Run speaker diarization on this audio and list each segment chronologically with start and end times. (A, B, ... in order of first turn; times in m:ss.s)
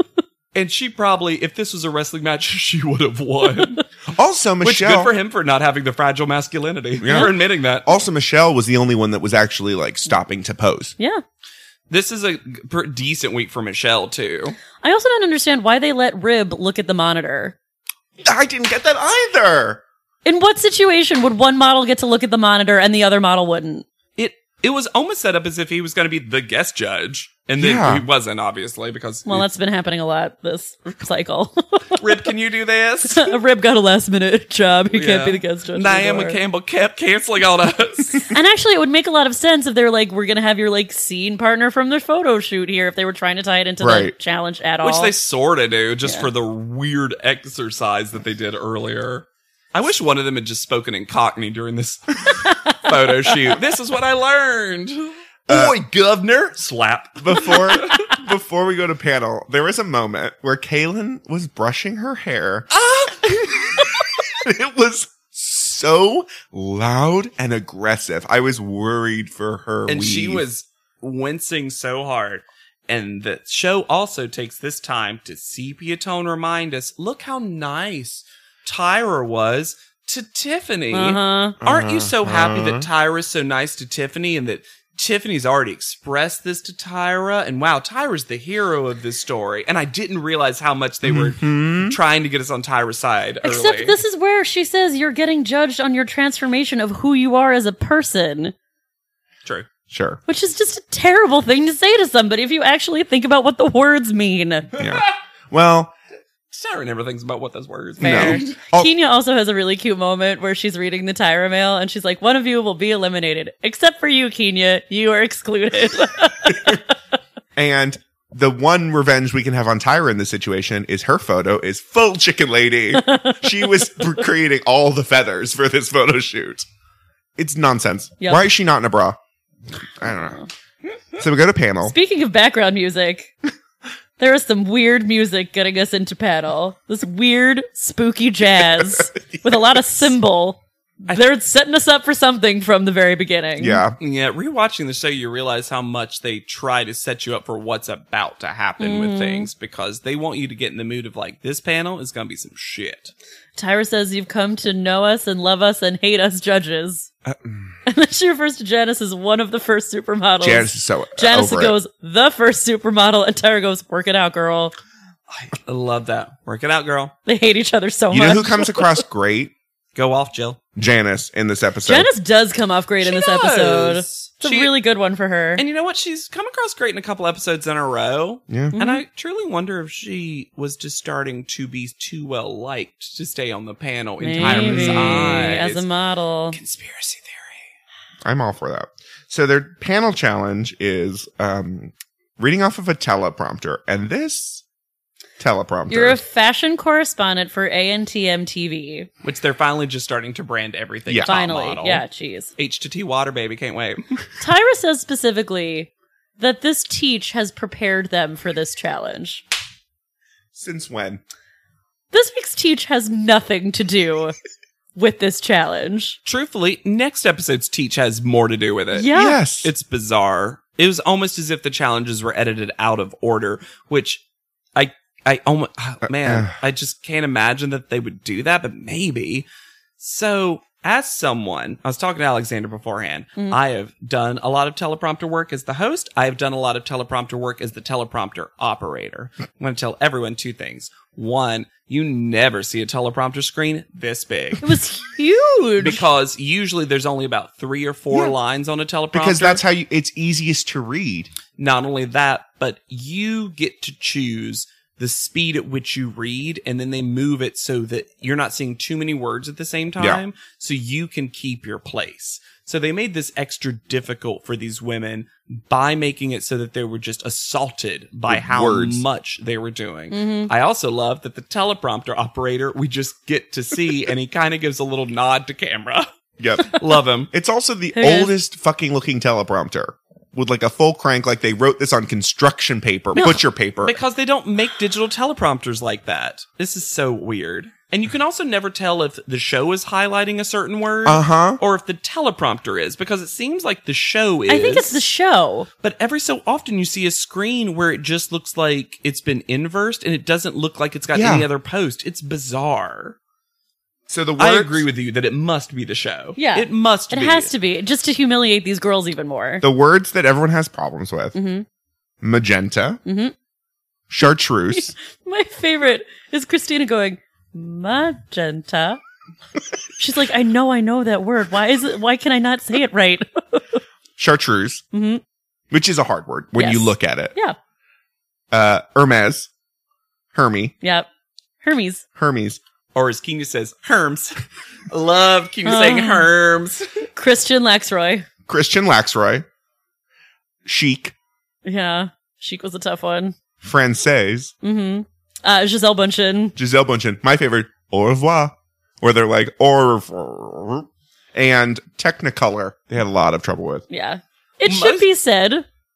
0:00.5-0:03.8 A
0:04.1-0:05.1 B
0:04.6-0:07.9 A
0:07.0-0:10.9 B
0:11.9-0:14.6 A
0:14.8-0:17.6 C
0:18.2-0:19.8 B
0:20.2-0:23.8 C
0:24.2-0:29.5 A
0:27.6-0:28.0 B
0:29.2-0:32.2 C
0:32.0-0:33.4 A
0:33.1-0:36.4 C
0:34.9-0:38.3 A
0:38.3-0:45.1 C
0:43.8-0:44.1 B
0:44.8-0:58.0 A
0:52.4-0:52.7 C
0:55.5-0:55.8 B
0:57.2-1:02.7 B
1:02.7-1:03.8 A
1:03.2-1:10.4 B
1:09.9-1:34.0 A
1:20.9-1:21.6 C
1:21.6-1:22.9 B
1:31.0-1:32.0 B
1:33.4-1:38.5 C
1:39.9-1:40.2 B
1:40.3-1:44.7 C
1:44.8-1:45.9 B
1:44.8-1:45.1 A
1:46.5-1:48.5 A
1:48.0-1:56.8 C
1:48.0-1:48.9 B
1:57.6-2:06.6 B
2:02.9-2:04.0 C
2:07.4-2:09.2 B
2:09.8-2:10.4 B
2:10.0-2:10.5 C
2:11.2-2:11.9 B
2:11.8-2:13.3 C
2:14.2-2:23.8 C
2:18.8-2:19.8 B
2:23.6-2:24.0 B
2:24.0-2:33.1 A
2:28.8-2:29.5 C
2:33.6-2:37.1 C
2:37.2-2:37.8 B
2:37.8-2:44.7 C
2:40.4-2:41.8 B
2:45.3-2:47.1 A
2:47.2-2:49.0 C
2:48.1-2:49.5 B
2:49.9-2:50.6 A
2:50.8-2:52.1 B
2:51.8-2:55.6 C
2:53.0-2:54.7 A
2:55.6-3:05.8 A
2:58.5-2:58.8 B
2:58.7-2:59.0 C
3:04.2-3:06.6 C
3:04.4-3:05.4 B
3:06.5-3:07.6 A
3:08.2-3:14.6 B
3:15.4-3:16.2 B
3:15.9-3:19.1 C
3:19.2-3:22.0 A
3:21.1-3:21.3 B
3:21.2-3:22.5 C
3:22.6-3:24.2 A
3:24.4-3:29.4 C
3:30.5-3:31.2 B
3:32.1-3:34.4 C
3:35.0-3:36.2 C
3:36.2-3:44.2 A
3:38.9-3:39.4 C
3:39.1-3:39.7 B
3:44.8-3:49.4 A
3:46.2-3:46.5 B
3:50.0-4:04.7 A
4:04.6-4:06.0 C
4:05.8-4:09.6 A
4:09.1-4:11.3 B
4:11.6-4:36.1 A
4:28.3-4:29.0 B
4:30.1-4:30.5 C
4:36.4-4:36.8 B
4:36.6-4:37.3 A
4:37.3-4:44.0 B
4:37.9-4:38.3 C
4:43.1-4:55.0 A
4:51.0-4:51.6 B
4:54.5-4:55.7 C
4:55.8-5:03.2 A
5:01.1-5:01.5 B
5:04.1-5:04.8 B
5:04.4-5:07.5 A
5:06.4-5:09.6 C
5:09.6-5:11.3 B
5:11.3-5:11.6 C
5:12.2-5:13.0 B
5:13.0-5:13.3 C
5:14.1-5:14.9 B
5:14.7-5:19.0 C
5:20.0-5:23.6 C
5:24.2-5:24.8 B
5:24.9-5:25.2 C
5:25.7-5:27.3 B
5:26.6-5:27.6 C
5:28.5-5:29.5 B
5:30.3-5:30.7 B
5:30.8-5:31.1 C
5:31.6-5:32.0 C
5:32.2-5:32.6 B
5:32.9-5:37.0 A
5:35.6-5:36.3 C
5:37.2-5:38.2 C
5:38.5-5:39.4 B
5:40.6-5:41.1 B
5:41.6-5:43.3 C
5:43.6-5:44.5 B
5:44.6-5:46.5 C
5:46.6-5:53.8 B
5:53.9-5:55.6 C
5:54.6-5:55.1 A